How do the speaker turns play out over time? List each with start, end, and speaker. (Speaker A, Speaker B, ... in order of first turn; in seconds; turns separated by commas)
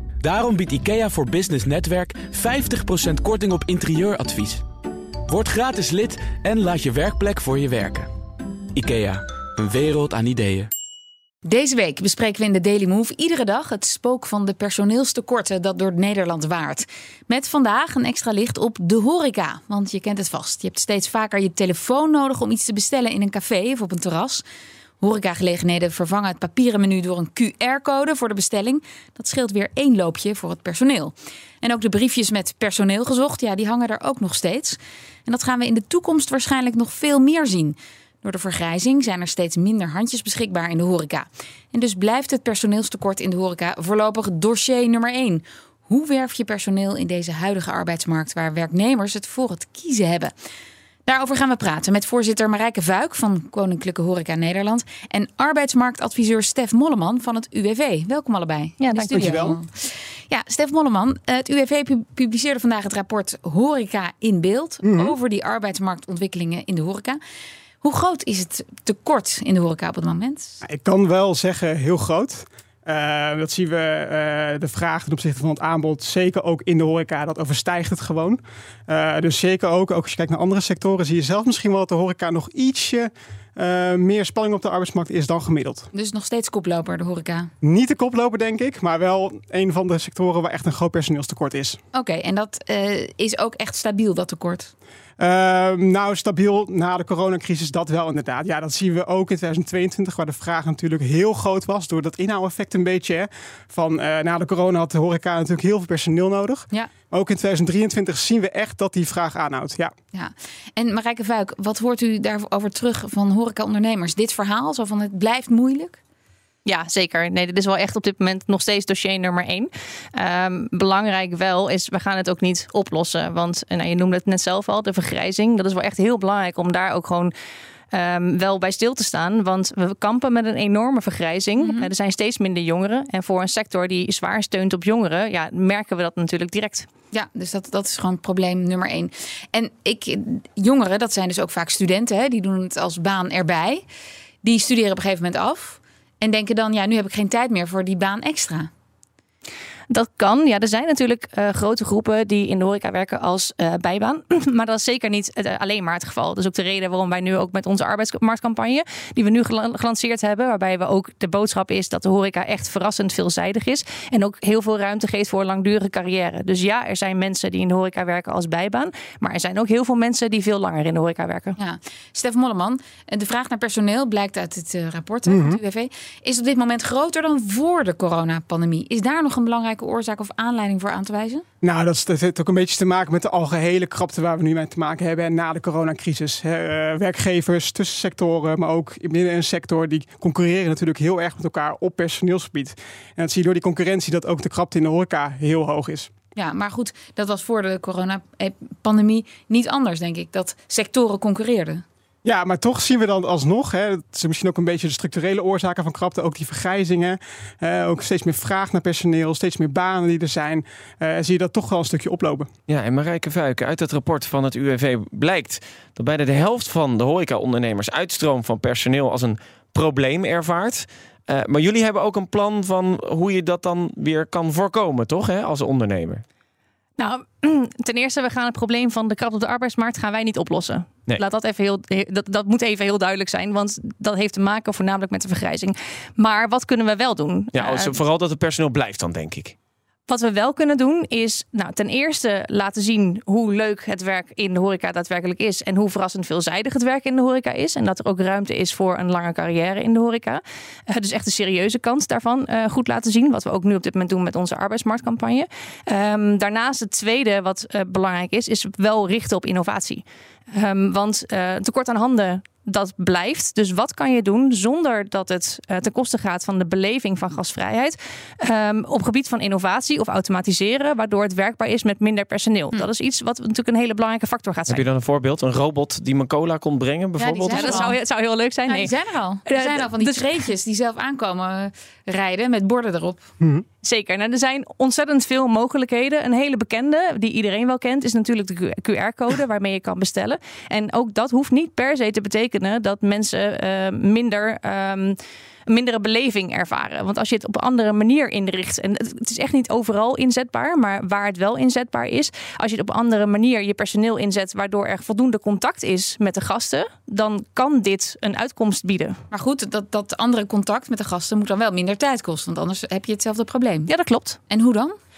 Speaker A: 0.2-4.6, Speaker A: 5.3-8.1, Speaker A: 8.8-10.7, Speaker B: 11.4-24.4, Speaker B: 25.0-50.3, Speaker B: 51.0-67.2, Speaker C: 58.8-59.3, Speaker D: 59.1-59.5, Speaker D: 64.8-65.2, Speaker B: 67.8-70.6, Speaker D: 70.6-85.9, Speaker B: 85.9-87.5, Speaker D: 87.6-91.8, Speaker B: 91.9-94.7, Speaker D: 95.2-109.9, Speaker B: 110.1-116.0, Speaker C: 116.6-127.3, Speaker C: 127.9-136.9, Speaker B: 131.6-131.9, Speaker B: 137.1-143.8, Speaker B: 144.4-148.7, Speaker C: 149.9-171.6, Speaker B: 171.6-181.4, Speaker D: 175.3-175.6, Speaker D: 181.6-196.1, Speaker B: 196.3-201.8, Speaker D: 202.2-212.5, Speaker E: 212.7-226.2, Speaker C: 227.0-238.0, Speaker E: 237.5-239.6, Speaker C: 240.1-274.8, Speaker E: 274.7-277.8, Speaker B: 277.2-278.0, Speaker C: 277.5-278.9, Speaker B: 278.7-283.3, Speaker C: 279.4-280.4, Speaker C: 283.8-309.2, Speaker B: 309.3-313.9, Speaker C: 313.9-314.4, Speaker B: 314.5-314.9